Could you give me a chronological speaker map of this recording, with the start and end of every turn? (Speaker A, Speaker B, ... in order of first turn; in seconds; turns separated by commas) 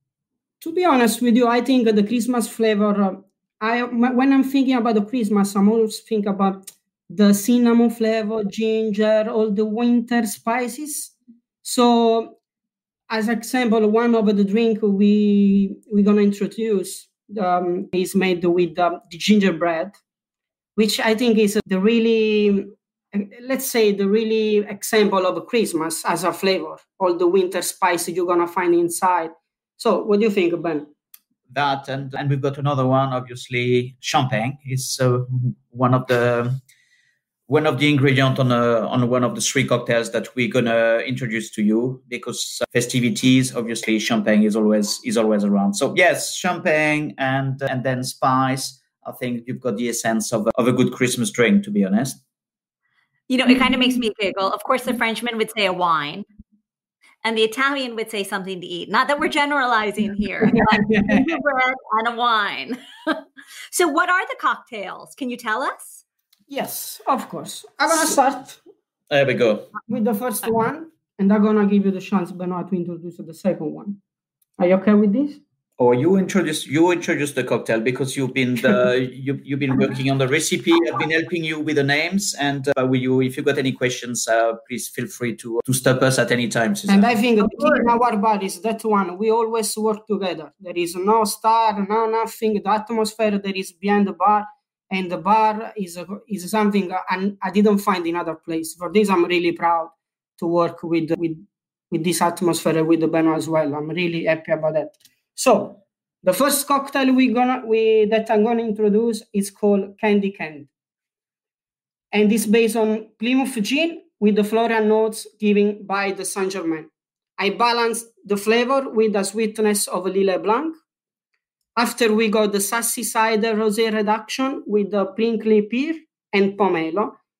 Speaker A: 0.6-12.3, Speaker A: 13.1-20.0, Speaker A: 20.8-30.9, Speaker B: 31.5-36.6, Speaker B: 37.5-52.2, Speaker C: 53.3-56.3, Speaker C: 57.2-63.2, Speaker C: 63.7-66.0, Speaker A: 66.5-68.6, Speaker B: 69.1-69.7, Speaker A: 69.9-74.0, Speaker A: 74.6-75.4, Speaker B: 75.8-87.9, Speaker A: 86.9-110.7, Speaker A: 112.1-120.8, Speaker A: 121.8-127.2